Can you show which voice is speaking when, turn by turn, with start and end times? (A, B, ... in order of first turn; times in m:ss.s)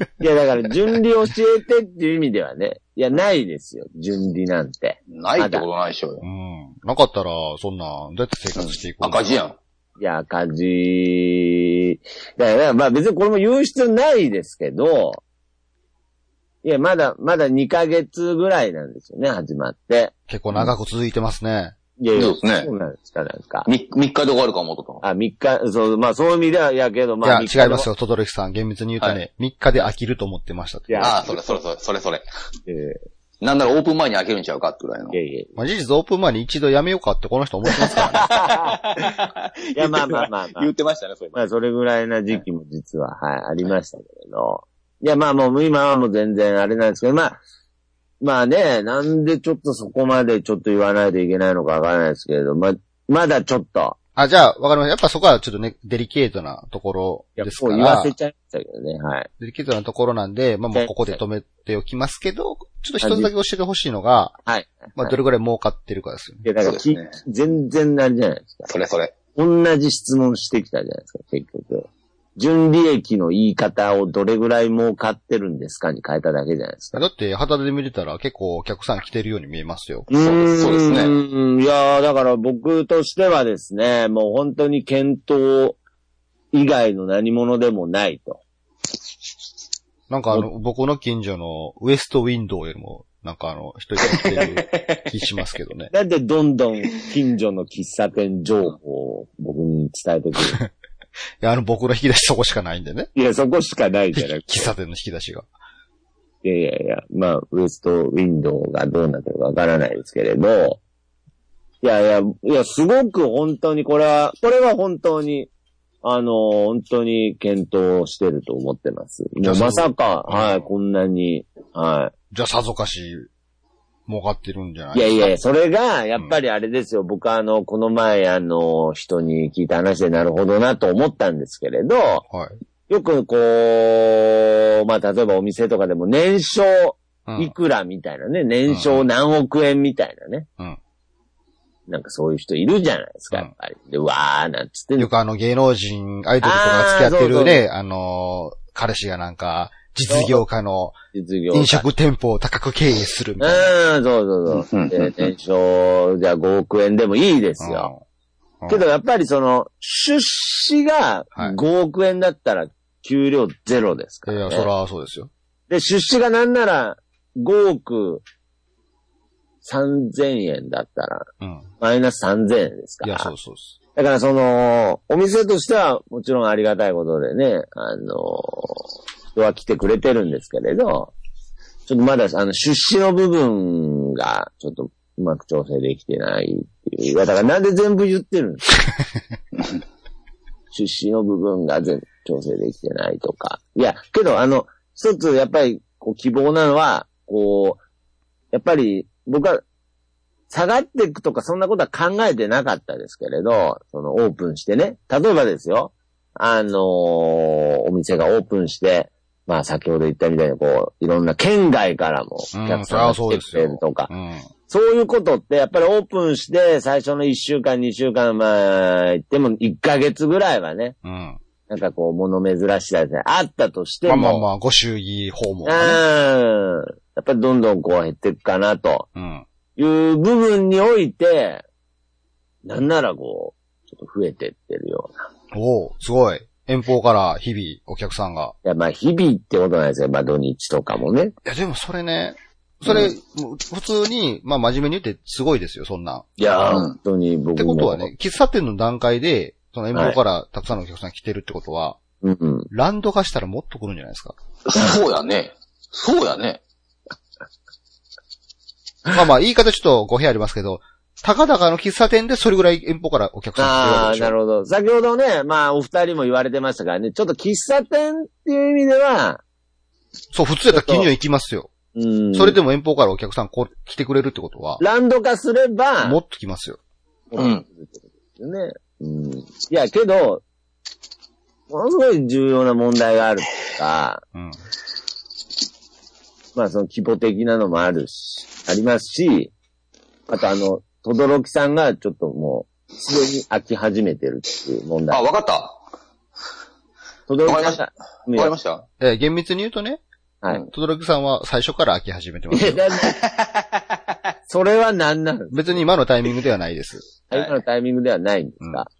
0:00.2-0:05.7 A
0:05.1-0:06.2 B
0:06.2-0:09.4 C
0:08.6-0:09.6 B
0:10.0-0:15.2 A
0:16.6-0:20.1 A
0:20.3-0:21.8 C
0:22.0-0:23.7 A
0:22.2-0:22.7 B
0:23.7-0:25.0 B
0:25.0-0:27.9 A
0:27.2-0:31.2 C
0:30.9-0:31.5 A
0:31.0-0:32.2 B
0:32.7-0:33.0 A
0:33.4-0:35.2 B
0:35.1-0:35.5 A
0:35.6-0:38.3 C
0:37.8-0:41.4 B
0:38.2-0:38.8 A
0:39.8-0:40.7 A
0:41.3-0:47.4 A
0:48.2-0:54.0 A
0:54.2-0:58.1 C
0:57.4-0:59.3 A
0:59.4-1:04.4 C
1:00.7-1:01.2 A
1:03.0-1:03.3 A
1:04.5-1:05.2 A
1:05.0-1:06.4 C
1:06.4-1:08.7 A
1:06.6-1:07.2 B
1:08.7-1:09.1 B
1:09.4-1:17.0 A
1:17.0-1:20.1 C
1:20.1-1:25.8 A
1:20.1-1:21.1 B
1:26.5-1:28.4 A
1:30.1-1:35.9 C
1:34.1-1:35.0 B
1:35.9-1:40.6 A
1:41.4-1:43.1 C
1:43.2-1:44.7 A
1:44.1-1:45.5 C
1:46.4-1:50.8 A
1:51.8-1:55.5 A
1:56.0-2:02.1 A
1:59.4-2:00.7 C
2:02.3-2:03.3 C
2:04.1-2:05.3 C
2:04.9-2:12.2 A
2:12.3-2:12.6 C
2:12.9-2:20.5 A
2:17.3-2:17.5 C
2:18.7-2:19.0 C
2:21.9-2:25.1 A
2:25.0-2:31.0 C
2:26.4-2:27.6 A
2:30.1-2:30.4 A
2:31.1-2:31.9 A
2:31.5-2:33.7 C
2:33.4-2:37.9 A
2:34.6-2:35.3 B
2:37.6-2:38.0 C
2:38.7-2:44.7 A
2:44.3-2:45.3 C
2:45.7-2:48.2 A
2:49.6-2:51.3 A
2:51.4-2:51.7 C
2:51.8-2:53.3 A
2:53.0-2:53.8 C
2:54.0-3:01.1 A
3:01.9-3:08.7 A
3:10.7-3:17.8 A
3:18.5-3:19.6 A
3:20.5-3:34.1 A
3:32.5-3:34.5 C
3:34.7-3:41.0 A
3:41.0-3:41.4 C
3:41.7-3:44.5 A
3:44.1-3:46.0 C
3:45.7-3:49.1 A
3:49.2-3:49.4 C
3:49.8-3:51.6 A
3:52.6-3:55.2 A
3:55.5-3:58.6 C
3:58.6-4:01.3 A
4:01.4-4:06.3 C
4:06.4-4:08.1 A
4:06.4-4:07.0 B
4:07.6-4:12.0 C
4:12.2-4:12.7 A
4:12.7-4:14.4 C
4:14.7-4:16.6 B
4:19.1-4:24.3 C
4:23.6-4:29.4 A
4:30.3-4:31.7 C
4:30.7-4:31.1 A
4:31.9-4:32.6 A
4:32.3-4:34.8 C
4:34.8-4:36.2 A
4:36.0-4:36.8 C
4:37.3-4:40.4 A
4:37.4-4:37.6 B
4:41.7-4:44.2 A
4:46.6-4:49.5 A
4:50.3-4:55.2 A
4:55.1-4:55.8 B
4:57.3-4:58.5 A
4:57.4-4:57.8 B
4:58.3-4:58.8 B
4:59.0-5:00.0 C
5:00.6-5:02.8 C
5:02.5-5:03.2 A
5:03.0-5:03.7 B
5:04.5-5:05.8 A
5:05.5-5:07.0 C
5:07.3-5:08.9 A
5:07.3-5:07.6 B